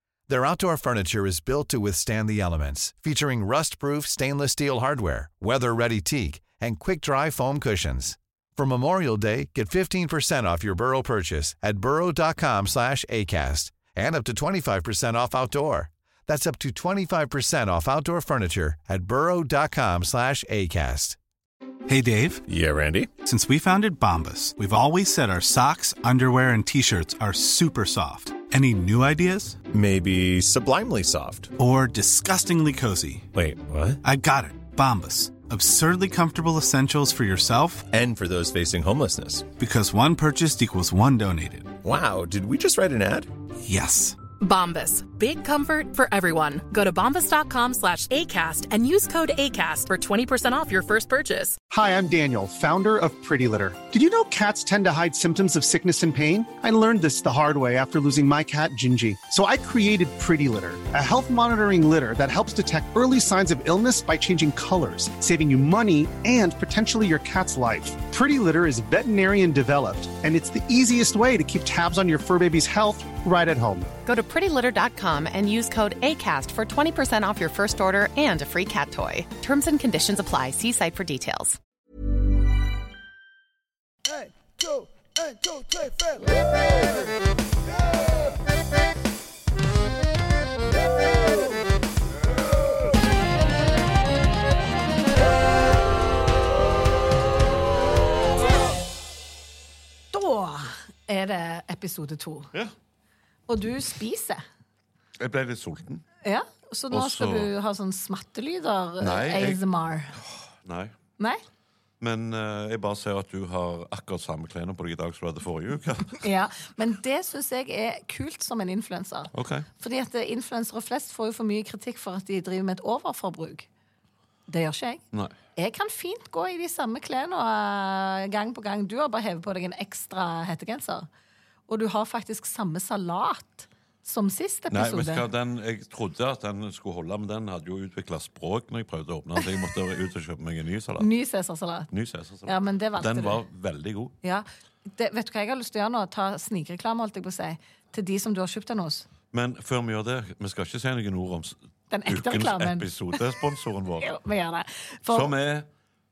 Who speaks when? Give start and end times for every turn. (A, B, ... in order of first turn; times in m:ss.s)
0:00.3-0:21.2 A
0:21.9-0:22.4 B
0:22.5-0:23.1 C
0:23.2-0:29.6 B
0:29.7-0:31.5 C
0:31.6-0:33.3 B
0:33.3-0:34.0 C
0:34.0-0:37.9 B
0:37.9-0:39.5 C
0:39.6-0:41.8 B
0:41.8-0:43.3 C
0:43.6-0:44.2 B
0:44.4-0:51.6 D
0:51.7-1:13.9 E
1:14.1-1:21.6 F
1:40.1-1:42.5 G
1:43.5-1:44.4 G
1:45.2-1:46.0 H
1:46.2-1:50.2 G
1:46.9-1:47.5 H
1:49.0-1:49.6 H
1:50.2-1:50.9 H
1:52.0-1:56.2 H
1:56.2-2:03.7 G
1:59.3-1:59.7 H
2:04.5-2:05.0 G
2:05.6-2:11.1 G
2:11.7-2:15.3 G
2:14.7-2:21.1 H
2:21.0-2:21.9 G
2:21.9-2:24.2 H
2:22.4-2:23.4 G
2:24.2-2:29.1 G
2:29.3-2:34.1 H
2:31.9-2:33.2 G
2:34.0-2:35.3 G
2:35.1-2:35.7 H